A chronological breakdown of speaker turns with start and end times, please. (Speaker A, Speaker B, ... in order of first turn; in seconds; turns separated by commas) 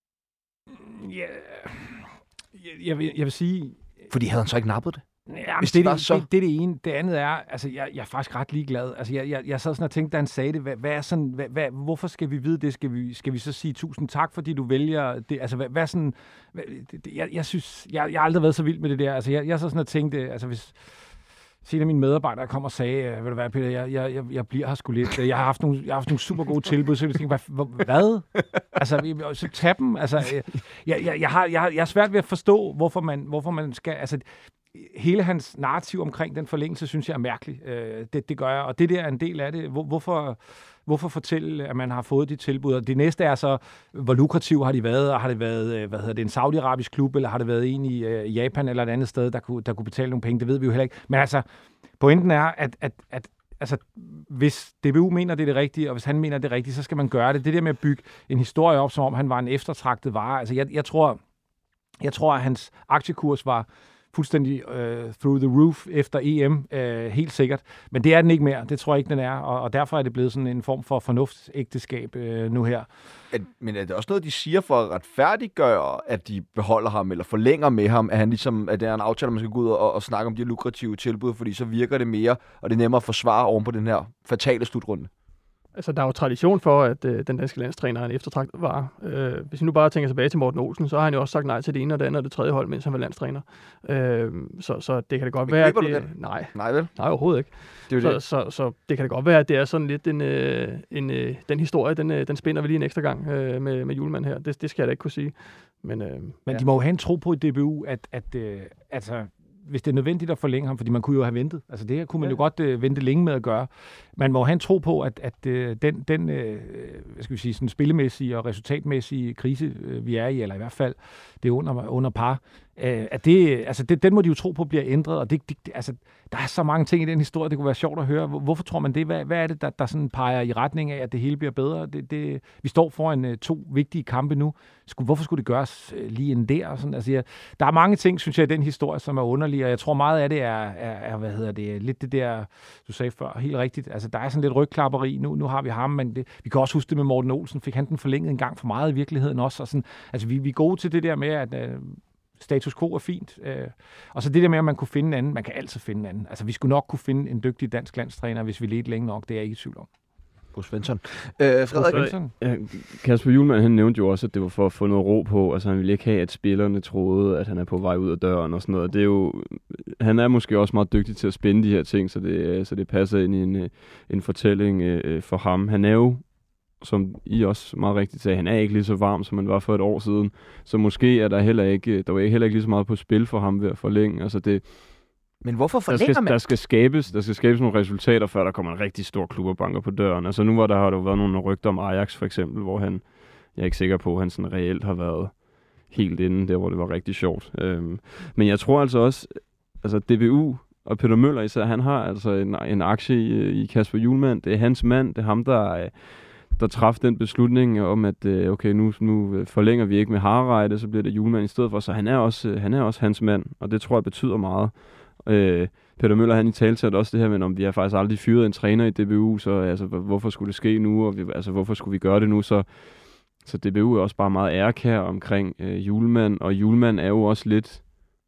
Speaker A: 0.8-3.9, Speaker B: 4.1-5.0, Speaker A: 5.3-21.1, Speaker B: 5.6-6.2, Speaker A: 21.6-51.4, Speaker A: 52.0-61.2, Speaker A: 62.0-72.9, Speaker B: 73.3-85.1, Speaker C: 85.8-106.4, Speaker B: 95.5-96.9, Speaker B: 97.9-98.2, Speaker A: 106.5-159.9, Speaker B: 160.5-162.1, Speaker A: 161.7-162.3, Speaker D: 161.9-185.1, Speaker B: 185.4-186.4, Speaker D: 185.9-228.0